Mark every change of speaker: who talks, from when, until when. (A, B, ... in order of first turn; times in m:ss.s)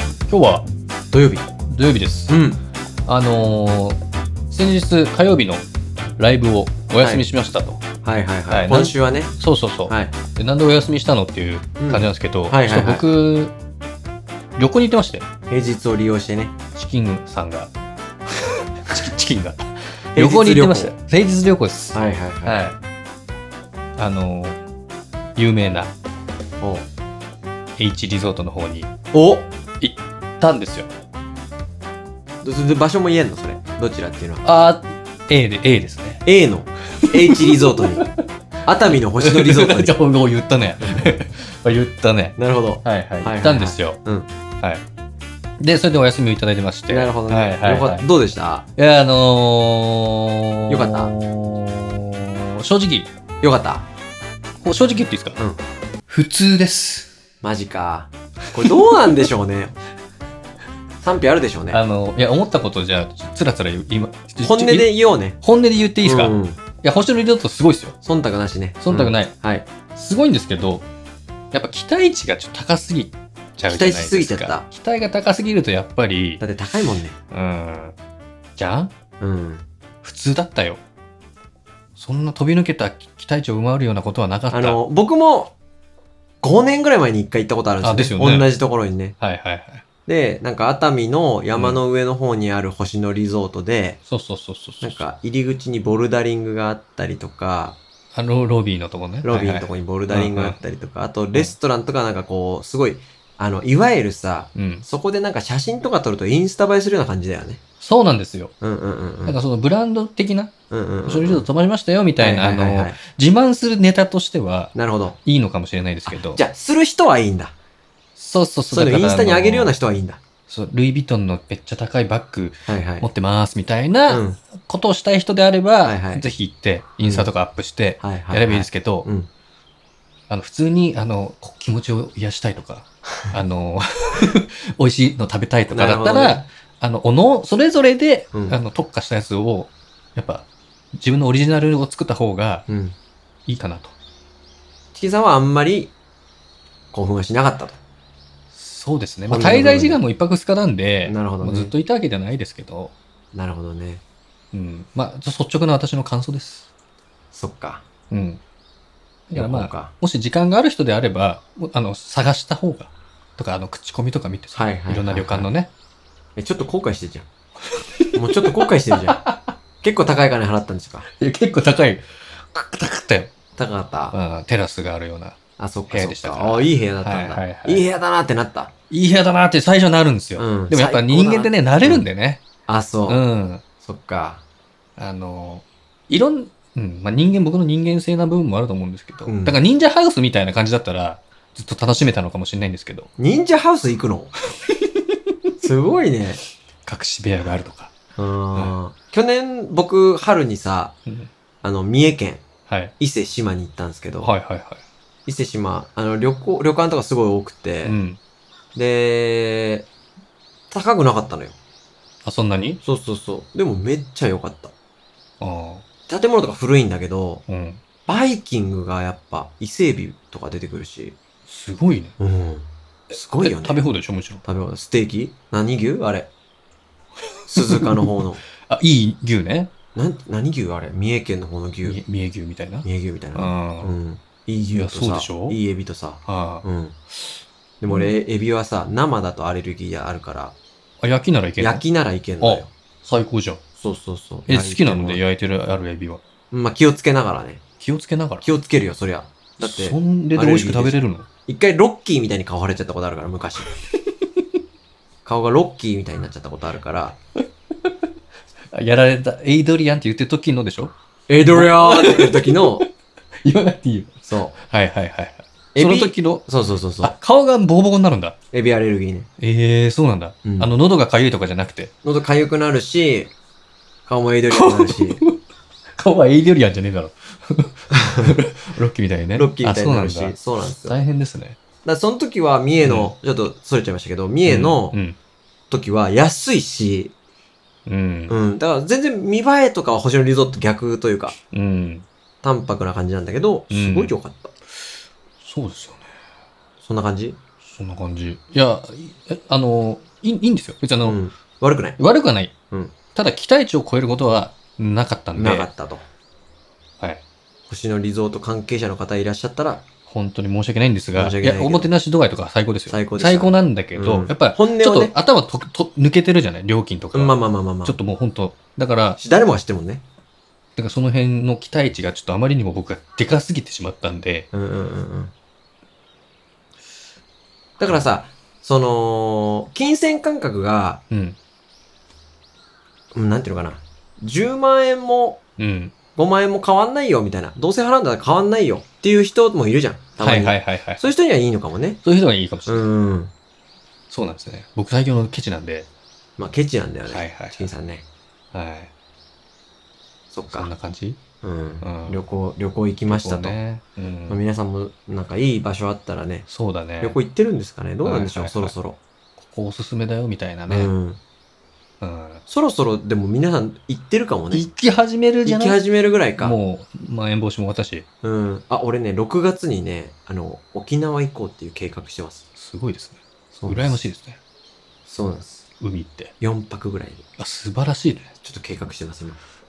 0:00.3-0:00.6 A
0:01.1-0:01.4 B
0:01.7-0:02.4 A
0:02.3-0:02.6 B
0:03.0-0:04.0 A
0:04.5-0:05.6 A
0:06.2-0:07.8 A
0:08.0-0:09.3 B
0:08.5-0:13.5 A
0:09.9-0:10.1 B
0:11.8-0:13.0 B
0:14.6-0:15.2 A
0:15.5-0:16.5 B
0:16.7-0:17.7 A
0:18.8-0:22.8 A
0:20.2-0:20.9 B
0:21.9-0:22.6 B
0:24.0-0:24.6 A
0:25.4-0:25.9 A
0:26.6-0:26.9 B
0:27.8-0:28.9 A
0:29.1-0:29.5 B
0:29.8-0:30.9 A
0:32.4-0:34.4 B
0:34.4-0:36.2 A
0:36.2-0:38.0 B
0:36.9-0:38.2 A
0:38.6-0:39.9 B
0:39.2-0:44.0 A
0:40.8-0:41.1 B
0:42.4-0:44.3 B
0:45.6-0:48.0 A
0:46.9-0:48.7 B
0:48.8-0:53.1 A
0:50.7-0:51.1 B
0:53.4-0:53.8 B
0:54.6-0:55.4 A
0:56.1-0:57.1 A
0:57.4-0:59.8 B
0:58.6-0:59.0 A
1:01.0-1:01.8 B
1:01.7-1:07.9 A
1:04.4-1:05.4 B
1:06.0-1:06.6 B
1:08.0-1:09.7 B
1:08.8-1:09.3 A
1:09.9-1:10.8 A
1:11.5-1:16.4 A
1:13.7-1:14.6 B
1:16.4-1:17.1 B
1:17.3-1:18.0 A
1:18.6-1:18.9 A
1:19.2-1:19.6 B
1:20.0-1:20.8 A
1:22.0-1:24.8 A
1:24.5-1:25.5 B
1:26.4-1:29.2 B
1:27.8-1:28.5 A
1:29.2-1:29.8 A
1:30.1-1:34.0 B
1:31.5-1:31.8 A
1:34.1-1:35.0 A
1:34.8-1:37.8 B
1:38.1-1:40.6 A
1:39.2-1:47.6 B
1:44.5-1:44.8 A
1:47.8-1:48.5 A
1:48.6-1:49.4 B
1:49.2-1:50.5 A
1:50.7-1:51.5 B
1:51.0-1:54.7 A
1:52.2-1:53.0 B
1:54.7-1:55.2 B
1:55.2-1:56.4 A
1:56.1-1:57.5 B
1:58.2-1:59.8 A
1:58.7-2:00.2 B
2:00.5-2:09.1 A
2:02.7-2:03.1 B
2:04.1-2:04.4 B
2:05.8-2:06.2 B
2:07.0-2:07.3 B
2:08.0-2:09.3 B
2:10.3-2:22.6 A
2:15.7-2:16.5 B
2:18.3-2:18.6 B
2:22.7-2:23.0 B
2:23.5-2:23.9 A
2:24.9-2:25.9 B
2:26.9-2:27.8 B
2:28.5-2:32.9 A
2:29.3-2:30.0 B
2:31.0-2:31.7 B
2:33.3-2:34.0 B
2:34.5-2:36.7 A
2:37.3-2:37.8 B
2:38.1-2:38.4 A
2:39.3-2:45.7 A
2:39.3-2:39.9 B
2:44.5-2:45.5 B
2:46.4-2:47.3 B
2:47.8-2:48.5 A
2:48.1-2:49.2 B
2:49.1-2:49.5 A
2:49.8-2:51.1 B
2:51.2-2:53.3 A
2:53.6-2:54.2 B
2:54.1-2:55.4 A
2:55.6-2:58.7 B
2:55.9-2:57.8 A
2:58.9-3:02.4 A
3:00.4-3:02.1 B
3:02.6-3:03.2 B
3:03.1-3:03.6 A
3:03.8-3:04.4 B
3:05.0-3:13.1 A
3:09.2-3:09.6 B
3:13.2-3:14.3 B
3:15.6-3:16.4 B
3:16.8-3:17.9 A
3:18.2-3:20.9 B
3:21.6-3:22.4 B
3:22.7-3:22.9 A
3:23.0-3:24.3 B
3:24.2-3:24.8 A
3:25.2-3:28.0 B
3:27.8-3:28.2 A
3:28.7-3:29.9 B
3:30.7-3:31.5 B
3:32.2-3:32.8 A
3:32.8-3:34.7 B
3:35.4-3:35.8 A
3:36.1-3:37.4 B
3:37.5-3:37.8 A
3:38.1-3:41.2 B
3:41.4-3:42.1 A
3:42.2-3:43.8 B
3:43.4-3:44.4 A
3:44.4-3:46.3 B
3:47.4-3:47.9 A
3:47.5-3:48.4 B
3:48.6-3:49.7 A
3:49.9-3:52.0 B
3:51.8-3:53.9 A
3:52.8-3:57.0 B
3:54.7-3:55.6 A
3:56.2-3:56.6 A
3:57.8-4:00.5 B
3:57.9-3:58.1 A
4:01.0-4:01.8 A
4:01.6-4:02.7 B
4:02.4-4:03.6 A
4:03.8-4:05.2 B
4:04.5-4:06.2 A
4:06.5-4:07.6 B
4:07.8-4:08.5 A
4:08.4-4:13.7 B
4:09.6-4:11.2 A
4:15.2-4:17.2 B
4:18.7-4:20.9 A
4:21.3-4:22.8 B
4:21.5-4:22.9 A
4:23.4-4:26.4 A
4:24.3-4:24.5 B
4:25.7-4:27.1 B
4:27.0-4:28.3 A
4:28.5-4:29.3 B
4:29.4-4:31.9 A
4:30.4-4:30.7 B
4:32.0-4:33.3 B
4:34.1-4:35.2 B
4:34.5-4:35.4 A
4:36.0-4:41.6 A
4:39.3-4:41.0 B
4:41.8-4:45.0 B
4:42.8-4:43.1 A
4:44.4-4:45.2 A
4:45.7-4:47.1 B
4:47.8-4:48.4 A
4:48.3-4:51.4 B
4:51.5-4:52.0 A
4:52.4-4:54.5 B
4:53.7-4:54.1 A
4:55.4-4:56.1 A
4:56.8-4:57.4 B
4:57.6-5:01.2 A
5:01.0-5:02.0 B
5:02.0-5:02.5 A
5:02.7-5:03.0 B
5:03.1-5:05.7 A
5:05.3-5:06.0 B
5:07.7-5:09.8 B
5:10.1-5:19.2 A
5:11.1-5:11.9 B
5:12.9-5:15.1 B
5:17.1-5:18.0 B
5:19.2-5:20.0 B
5:20.8-5:24.5 A
5:24.5-5:25.3 B
5:27.8-5:31.0 B
5:31.1-5:31.4 A
5:33.1-5:35.4 B
5:35.6-5:35.9 A
5:36.2-5:42.0 B
5:40.2-5:41.0 A
5:42.0-5:42.9 A
5:42.7-5:43.3 B
5:44.1-5:45.9 A
5:46.4-5:48.0 B
5:47.1-5:47.7 A
5:48.5-5:48.9 A
5:50.3-5:50.7 B
5:50.5-5:51.2 A
5:51.4-5:53.6 B
5:51.8-5:52.2 A
5:53.1-5:54.4 A
5:54.3-5:56.5 B
5:56.5-5:57.2 A
5:57.0-5:59.0 B
5:58.0-5:58.7 A
5:59.4-6:00.9 A
6:00.7-6:01.2 B
6:02.0-6:02.4 A
6:02.5-6:04.7 B
6:04.5-6:05.8 A
6:05.4-6:06.6 B
6:06.4-6:08.0 A
6:08.2-6:12.4 B
6:12.6-6:14.4 A
6:13.5-6:14.0 B
6:15.1-6:15.6 B
6:15.8-6:16.3 A
6:16.4-6:17.2 B
6:17.4-6:18.3 A
6:18.4-6:19.4 B